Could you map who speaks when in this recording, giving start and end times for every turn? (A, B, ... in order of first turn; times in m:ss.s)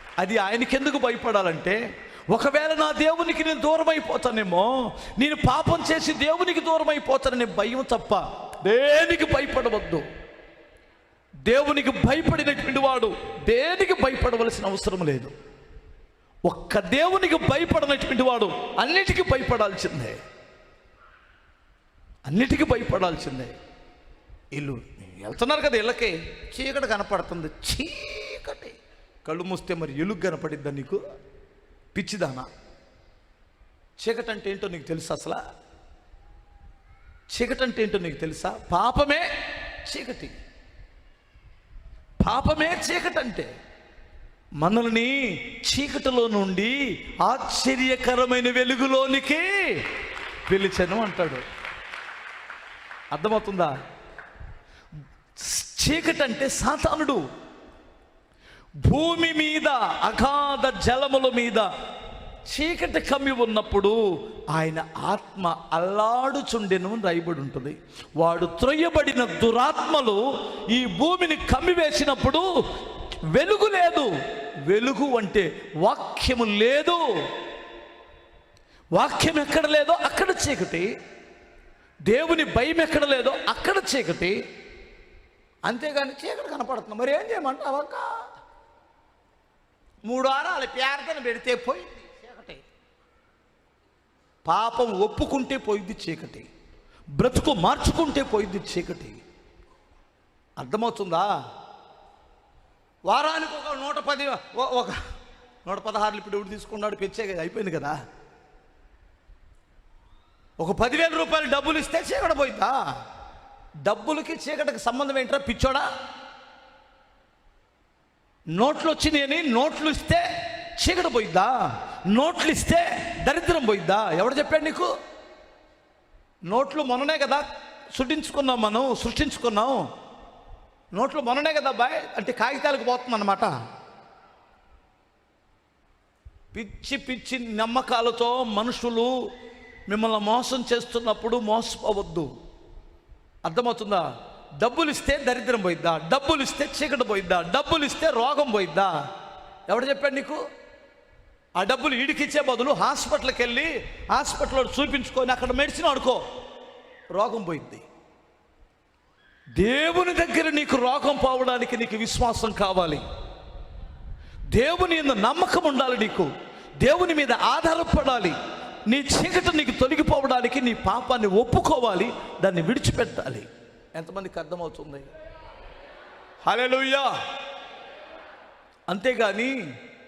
0:00.2-0:10.1 A
0:11.5-0:15.3 A
0:16.5-0:20.2 A
0:22.3-0:23.5 A
0:24.5-0:31.0 A
0:32.0-0:32.5 A
0:34.0-0:35.4 A
0:37.3-0:39.3 A
0:39.8-0:40.4 A
0:42.2-0:43.5 A
0:44.6-0:51.4 A
0:53.1-0:53.7 A
0:55.4-0:57.2 A
0:58.8-1:01.7 A
1:02.5-1:04.0 A
1:04.5-1:12.5 A
1:13.3-1:14.1 A
1:14.7-1:17.0 A
1:18.9-1:20.9 A
1:22.1-1:24.4 A
1:25.6-1:28.1 A
1:30.0-1:32.6 A
1:34.5-1:36.5 A
1:37.2-1:39.2 A
1:40.6-1:41.3 A
1:43.1-1:45.0 A
1:45.6-1:48.0 A
1:50.6-1:52.8 A
1:53.8-1:55.9 A
1:58.6-2:04.9 A
2:06.5-2:09.8 A
2:11.0-2:13.5 A
2:16.5-2:19.1 A
2:19.9-2:22.3 A
2:23.4-2:24.1 A
2:24.6-2:28.9 A
2:29.7-2:30.4 A
2:31.6-2:36.2 A
2:37.1-2:37.8 A
2:39.6-2:43.0 A
2:44.5-2:46.3 A
2:46.8-2:55.1 A
2:56.4-2:57.1 A
2:58.9-2:59.5 A